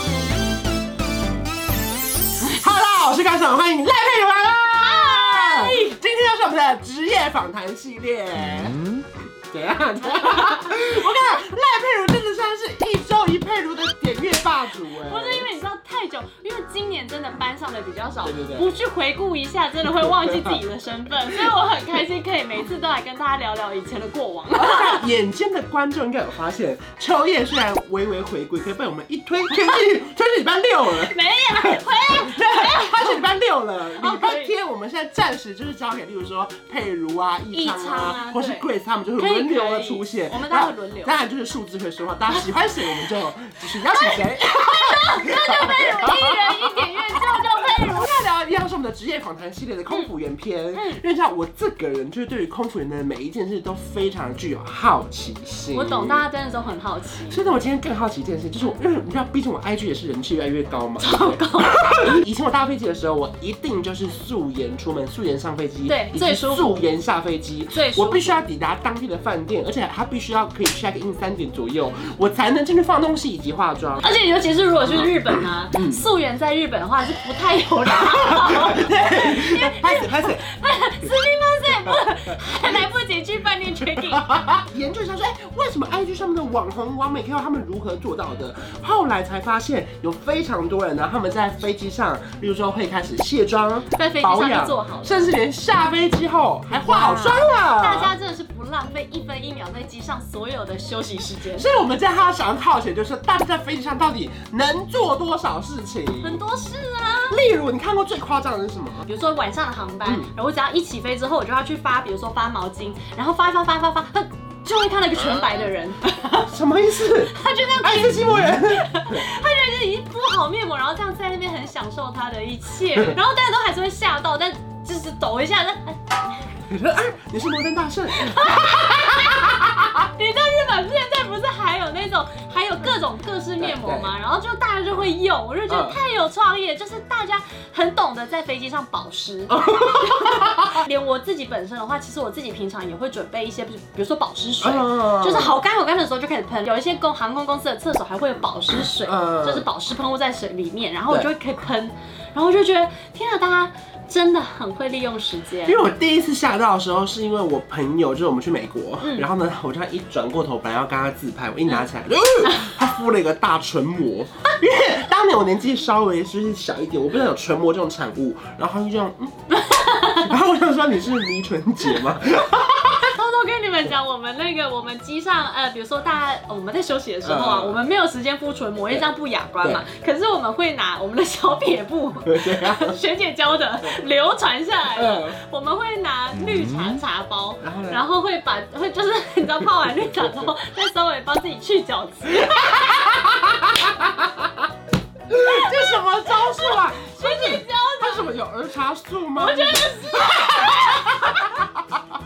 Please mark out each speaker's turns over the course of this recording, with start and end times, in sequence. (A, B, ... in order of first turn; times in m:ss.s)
0:02.4-0:15.5 A
0:04.8-0:06.0 B
0:10.2-0:10.5 B
0:14.8-0:25.1 B
0:18.2-0:18.7 A
0:20.0-0:20.6 A
0:24.5-0:56.2 A
0:30.9-0:33.3 B
0:33.9-0:34.6 B
0:37.5-0:38.7 B
0:39.2-0:41.2 B
0:43.8-0:48.1 B
0:50.7-0:51.0 B
0:55.7-0:57.4 B
0:57.3-1:14.1 A
1:01.0-1:02.0 B
1:05.9-1:06.9 B
1:07.7-1:08.4 B
1:14.0-1:24.3 B
1:15.7-1:16.0 A
1:17.9-1:20.4 A
1:21.7-1:22.0 A
1:23.9-1:38.1 A
1:33.9-1:35.3 B
1:36.7-1:41.7 B
1:41.5-1:46.4 A
1:46.2-1:47.4 B
1:47.3-1:49.1 A
1:49.1-2:06.2 B
1:50.0-1:50.3 A
1:56.5-1:59.3 A
2:06.7-2:10.0 A
2:08.1-2:35.8 B
2:13.6-2:14.1 A
2:15.7-2:16.0 A
2:19.5-2:20.7 A
2:24.6-2:25.6 A
2:29.0-2:29.6 A
2:35.7-2:53.1 A
2:39.0-2:39.3 B
2:49.5-2:50.4 B
2:53.0-3:13.5 B
2:57.2-2:57.8 A
3:02.3-3:02.9 A
3:05.0-3:05.4 A
3:07.6-3:08.0 A
3:12.4-3:14.6 A
3:15.3-3:21.8 A
3:15.4-3:18.4 B
3:19.4-3:21.6 B